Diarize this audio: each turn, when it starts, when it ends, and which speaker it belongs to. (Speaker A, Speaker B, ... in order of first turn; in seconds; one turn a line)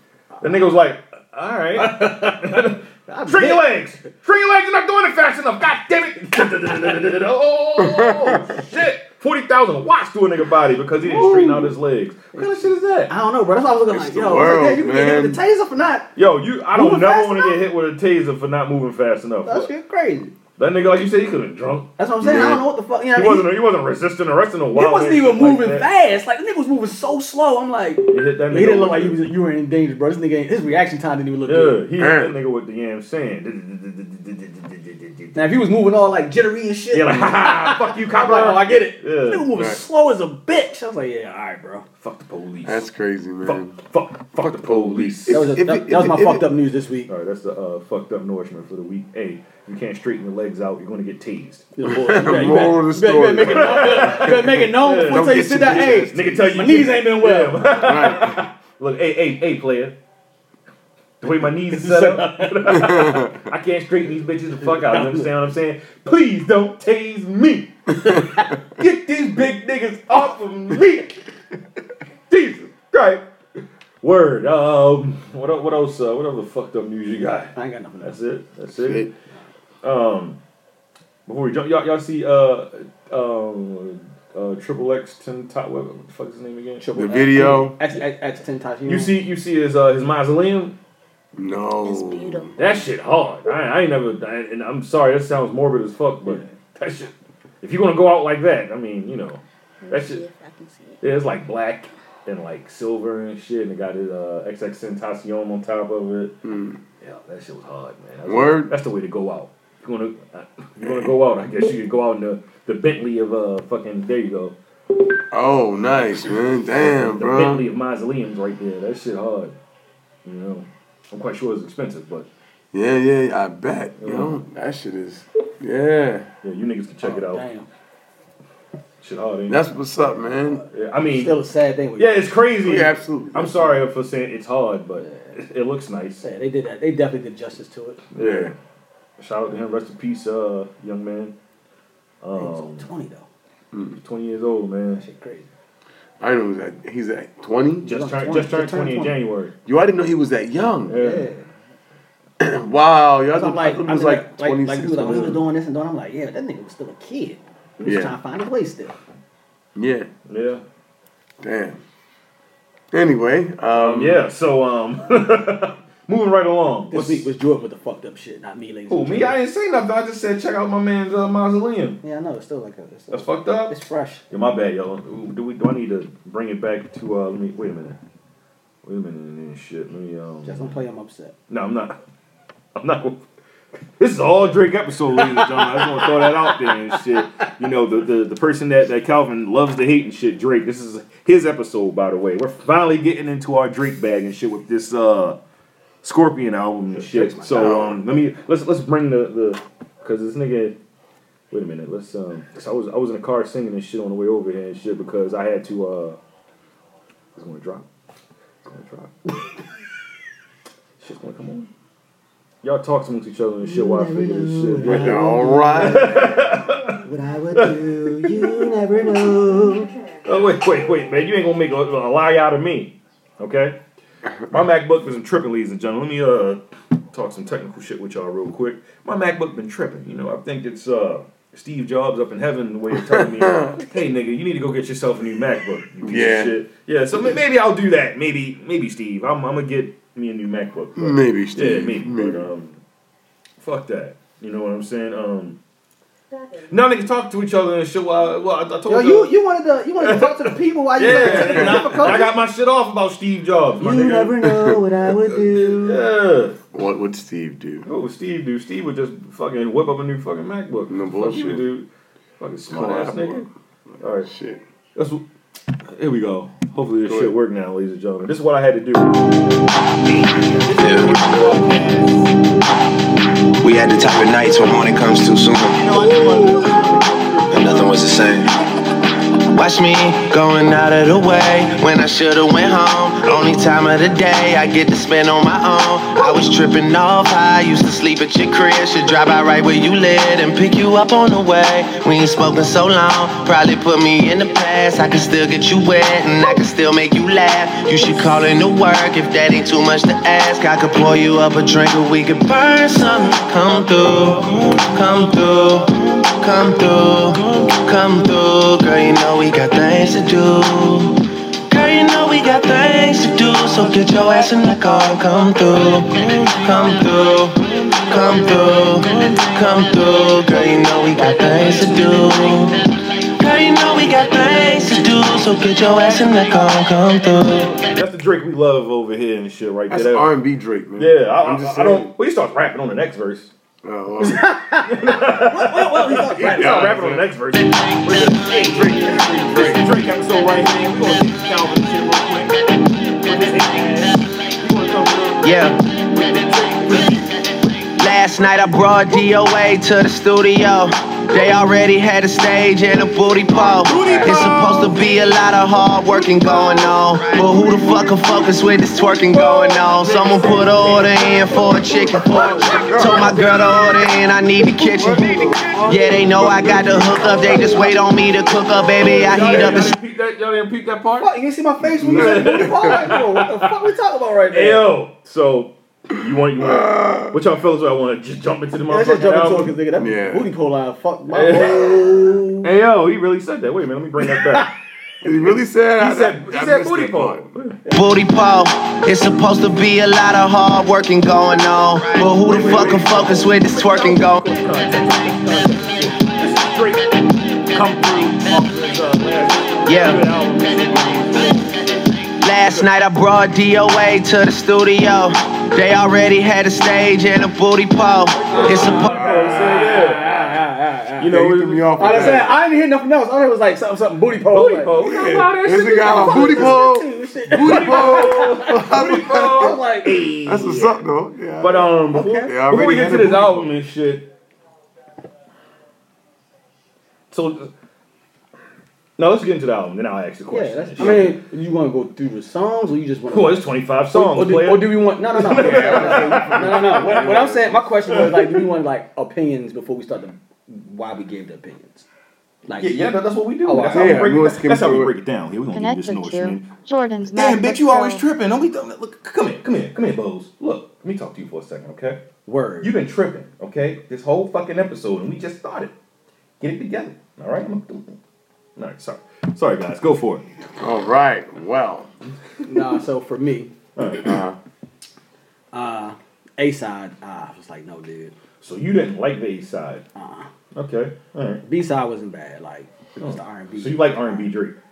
Speaker A: 0.4-13.1
Speaker B: 1.8-3.7
Speaker C: 7.8-8.4
Speaker C: 10.9-11.8
Speaker B: 13.1-16.1
Speaker C: 13.9-15.4
Speaker A: 16.2-19.7
Speaker B: 16.7-17.7
Speaker B: 19.5-20.3
Speaker A: 20.6-22.6
Speaker B: 22.0-23.6
Speaker C: 22.2-22.6
Speaker A: 23.1-25.9
Speaker B: 24.7-31.9
Speaker A: 28.1-29.2
Speaker A: 31.5-35.4
Speaker C: 32.0-32.4
Speaker B: 35.4-41.9
Speaker A: 36.9-39.5
Speaker C: 39.5-39.8
Speaker A: 42.0-42.9
Speaker C: 42.6-43.8
Speaker A: 43.4-45.6
Speaker C: 44.3-46.5
Speaker B: 45.3-47.1
Speaker A: 47.1-52.7
Speaker B: 51.8-57.7
Speaker C: 51.9-56.4
Speaker A: 53.4-60.0
Speaker C: 57.8-58.4
Speaker A: 61.2-67.9
Speaker B: 61.6-63.0
Speaker C: 62.9-63.3
Speaker B: 64.6-65.3
Speaker A: 68.8-71.2
Speaker A: 72.3-73.3
Speaker A: 74.0-79.1
Speaker B: 77.5-78.2
Speaker C: 78.8-79.1
Speaker A: 79.8-80.4
Speaker A: 81.3-87.0
Speaker B: 86.8-89.2
Speaker C: 87.0-87.8
Speaker A: 88.9-90.8
Speaker C: 91.3-92.5
Speaker D: 91.8-92.9
Speaker A: 92.6-100.2
Speaker D: 99.8-101.0
Speaker A: 101.0-106.4
Speaker C: 106.4-106.8
Speaker A: 107.0-114.6
Speaker C: 108.3-108.8
Speaker C: 110.8-111.1
Speaker C: 115.3-117.7
Speaker A: 115.9-119.5
Speaker A: 120.2-122.3
Speaker C: 122.7-126.3
Speaker A: 124.0-124.4
Speaker A: 126.4-127.5
Speaker B: 127.0-127.7
Speaker A: 129.0-129.7
Speaker C: 129.5-130.6
Speaker B: 130.5-132.3
Speaker A: 130.7-131.4
Speaker A: 132.0-136.2
Speaker C: 132.6-133.8
Speaker B: 135.0-135.3
Speaker B: 136.2-138.0
Speaker A: 138.2-138.6
Speaker C: 138.2-138.5
Speaker A: 139.2-141.3
Speaker A: 142.2-142.9
Speaker B: 142.4-143.3
Speaker C: 143.7-144.0
Speaker A: 144.0-145.0
Speaker B: 144.9-145.5
Speaker C: 146.2-147.9
Speaker A: 147.8-149.5
Speaker B: 147.8-149.2
Speaker C: 149.7-151.0
Speaker A: 150.9-151.3
Speaker B: 150.9-151.5
Speaker C: 152.4-155.4
Speaker B: 153.3-159.0
Speaker A: 155.1-155.4
Speaker C: 157.8-158.2
Speaker C: 159.8-160.1
Speaker A: 160.3-160.6
Speaker C: 161.4-161.8
Speaker C: 162.9-164.3
Speaker A: 163.7-167.3
Speaker B: 166.9-169.4
Speaker A: 168.9-172.0
Speaker B: 172.0-174.2
Speaker A: 173.1-173.8
Speaker A: 174.3-178.0
Speaker A: 178.8-180.8
Speaker B: 180.4-181.3
Speaker A: 181.5-182.0
Speaker A: 182.8-183.2
Speaker A: 184.0-195.4
Speaker B: 185.2-186.7
Speaker A: 196.0-200.8
Speaker B: 196.9-197.8
Speaker C: 197.5-198.0
Speaker A: 201.5-206.2
Speaker A: 207.3-207.9
Speaker A: 208.6-209.2
Speaker A: 211.0-211.7
Speaker A: 212.6-215.2
Speaker B: 213.6-216.4
Speaker C: 214.8-216.4
Speaker A: 215.8-217.0
Speaker B: 217.0-219.9
Speaker A: 217.5-219.4
Speaker A: 220.2-223.8
Speaker A: 224.5-226.6
Speaker A: 227.1-242.8
Speaker C: 233.0-233.8
Speaker C: 236.0-236.6
Speaker C: 241.0-242.5
Speaker A: 243.6-245.6
Speaker A: 246.7-249.4
Speaker B: 248.9-252.3
Speaker A: 250.0-254.4
Speaker C: 251.1-252.2
Speaker B: 253.8-256.1
Speaker C: 253.8-254.8
Speaker A: 255.1-256.6
Speaker C: 256.7-257.9
Speaker A: 257.9-261.9
Speaker C: 260.9-261.7
Speaker A: 262.4-263.5
Speaker C: 262.7-263.5
Speaker A: 264.0-264.3
Speaker C: 264.1-264.6
Speaker A: 265.0-265.2
Speaker A: 265.9-269.2
Speaker C: 267.1-267.3
Speaker A: 270.0-272.3
Speaker E: 270.8-271.2
Speaker E: 273.6-276.1
Speaker A: 275.8-277.9
Speaker E: 277.5-278.5
Speaker E: 279.5-322.8
Speaker A: 321.6-321.9
Speaker E: 323.4-327.8
Speaker A: 327.8-330.3
Speaker C: 329.9-332.1
Speaker A: 331.0-333.5
Speaker C: 333.8-334.5
Speaker B: 334.2-337.1
Speaker A: 334.9-342.7
Speaker C: 336.4-337.3
Speaker C: 338.7-339.9
Speaker A: 343.2-345.6
Speaker E: 345.4-345.8
Speaker A: 346.1-347.3
Speaker E: 348.0-370.0
Speaker A: 353.6-355.2
Speaker A: 357.6-358.1
Speaker A: 359.3-363.7
Speaker B: 362.1-362.8
Speaker C: 362.3-363.4
Speaker C: 364.8-367.8
Speaker A: 366.4-368.1
Speaker A: 368.9-371.3
Speaker C: 369.4-369.8
Speaker B: 371.2-374.9
Speaker A: 372.0-373.8
Speaker C: 372.1-373.1
Speaker A: 374.5-379.8
Speaker C: 376.5-377.4
Speaker B: 378.9-382.7
Speaker C: 380.0-380.5
Speaker A: 381.3-382.1
Speaker A: 382.6-384.7
Speaker B: 384.2-384.7
Speaker C: 385.2-387.5
Speaker A: 385.4-387.8
Speaker E: 387.9-394.6
Speaker A: 392.2-397.2
Speaker A: 397.7-401.9
Speaker E: 399.9-400.3
Speaker E: 402.4-409.2
Speaker B: 408.4-411.2
Speaker A: 408.5-410.2
Speaker C: 408.7-410.6
Speaker A: 411.2-412.4
Speaker C: 411.2-412.6
Speaker B: 412.0-415.0
Speaker A: 414.5-416.8
Speaker C: 415.0-419.8
Speaker B: 416.0-420.2
Speaker A: 417.6-421.1
Speaker C: 420.4-423.8
Speaker A: 421.6-424.3
Speaker B: 422.1-422.6
Speaker A: 427.3-427.7
Speaker A: 429.2-431.4
Speaker B: 430.5-442.1
Speaker A: 433.3-437.5
Speaker C: 435.6-437.8
Speaker A: 438.1-438.6
Speaker B: 442.7-443.1
Speaker A: 442.8-446.7
Speaker B: 443.6-444.3
Speaker C: 443.8-445.2
Speaker F: 445.7-448.3
Speaker A: 447.3-452.2
Speaker B: 452.5-452.9
Speaker A: 452.8-455.9
Speaker A: 456.6-458.2
Speaker A: 458.8-460.4
Speaker C: 460.8-462.1
Speaker B: 462.7-463.8
Speaker A: 464.0-464.4
Speaker C: 464.2-464.6
Speaker B: 465.7-468.3
Speaker A: 468.6-470.1
Speaker B: 470.2-470.5
Speaker A: 470.7-471.6
Speaker B: 471.6-474.5
Speaker A: 473.2-474.8